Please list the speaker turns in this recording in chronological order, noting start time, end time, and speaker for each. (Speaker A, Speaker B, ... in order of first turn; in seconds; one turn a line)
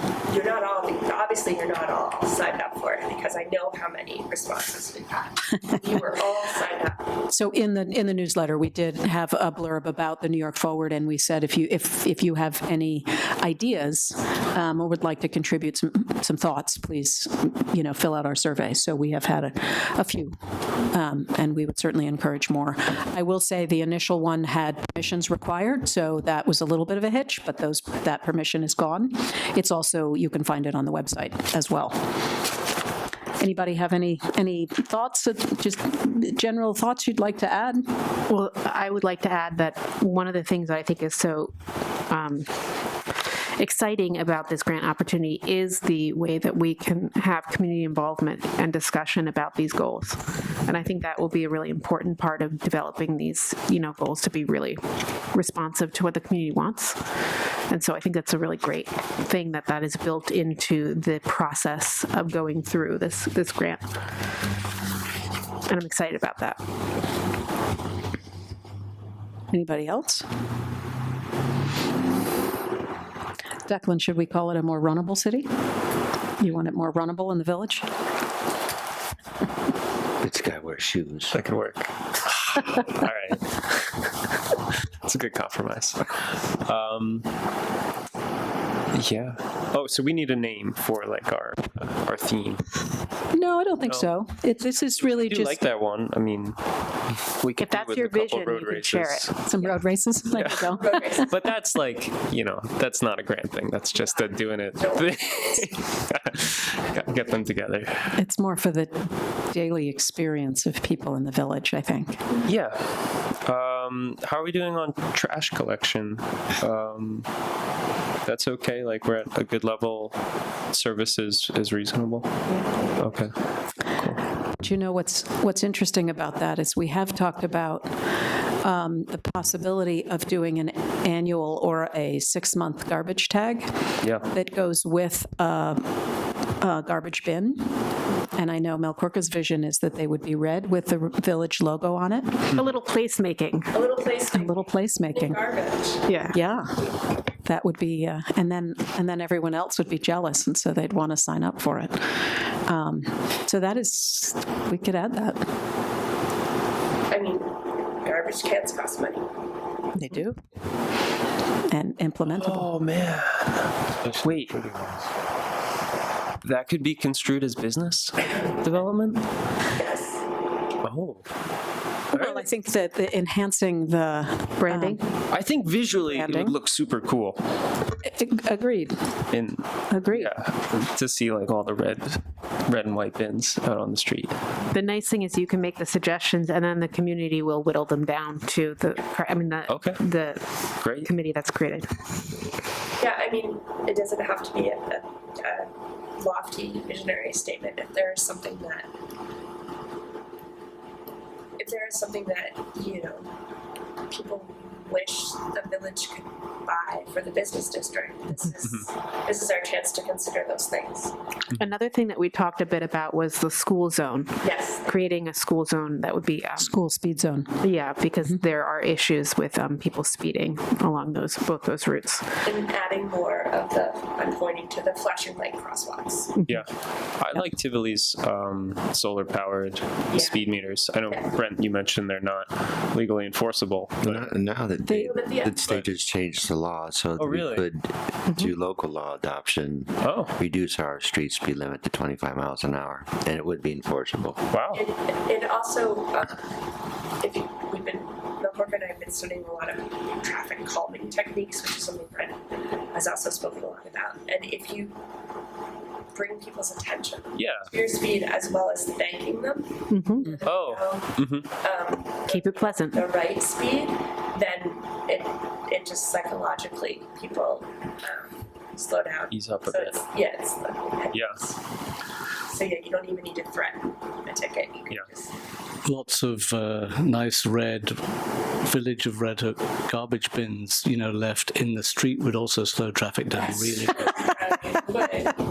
Speaker A: 0.2-7.2
Speaker B: 7.3-20.3
Speaker B: 20.9-32.3
Speaker B: 33.4-37.9
Speaker C: 38.3-41.5
Speaker C: 42.1-42.5
Speaker C: 43.1-54.8
Speaker C: 55.3-57.0
Speaker C: 57.7-64.0
Speaker C: 65.7-66.6
Speaker B: 69.5-70.2
Speaker B: 73.7-75.5
Speaker B: 76.4-77.9
Speaker D: 80.2-81.4
Speaker E: 81.3-84.0
Speaker E: 85.0-87.3
Speaker E: 88.9-92.6
Speaker B: 93.3-95.6
Speaker E: 95.1-96.6
Speaker E: 97.3-99.3
Speaker C: 97.6-99.7
Speaker B: 99.4-101.5
Speaker E: 100.3-100.7
Speaker A: 100.8-101.3
Speaker E: 101.2-108.2
Speaker A: 104.0-105.7
Speaker B: 108.2-112.2
Speaker E: 112.4-117.3
Speaker E: 118.2-120.2
Speaker E: 120.7-122.3
Speaker E: 123.0-123.3
Speaker E: 123.9-124.2
Speaker B: 124.6-137.8
Speaker B: 138.3-142.6
Speaker C: 142.5-143.8
Speaker A: 143.7-146.2
Speaker B: 144.3-145.4
Speaker C: 146.0-146.4
Speaker B: 146.3-146.8
Speaker B: 147.4-155.4
Speaker A: 157.1-159.4
Speaker B: 159.9-160.4
Speaker B: 161.7-162.7
Speaker E: 162.2-164.5
Speaker F: 164.2-165.0
Speaker E: 166.4-169.2
Speaker A: 169.8-170.2
Speaker E: 170.8-171.2
Speaker B: 172.1-175.0
Speaker E: 172.1-172.4
Speaker C: 174.6-175.0
Speaker E: 175.3-177.4
Speaker B: 176.0-176.6
Speaker B: 178.0-179.1
Speaker E: 179.3-184.4
Speaker B: 179.9-180.3
Speaker C: 184.7-192.0
Speaker E: 189.7-190.0
Speaker E: 190.8-191.1
Speaker A: 193.0-198.9
Speaker A: 201.6-203.4
Speaker A: 204.1-211.2
Speaker C: 211.5-216.7
Speaker A: 214.4-214.9
Speaker B: 216.6-217.6
Speaker C: 217.6-222.3
Speaker A: 222.4-226.4
Speaker E: 226.4-234.3
Speaker A: 230.1-230.4
Speaker A: 231.1-231.3
Speaker D: 234.0-244.4
Speaker B: 234.8-235.1
Speaker A: 235.1-235.6
Speaker E: 235.6-235.9
Speaker E: 237.2-237.7
Speaker E: 240.0-240.3
Speaker E: 244.5-244.8
Speaker A: 244.7-246.5
Speaker A: 247.2-255.0
Speaker A: 256.1-271.6
Speaker E: 257.3-257.7
Speaker C: 259.9-260.3
Speaker E: 260.4-261.5
Speaker C: 262.3-263.0
Speaker E: 269.3-270.0
Speaker A: 272.4-275.4
Speaker F: 275.8-278.0
Speaker F: 278.6-284.3
Speaker A: 284.0-285.4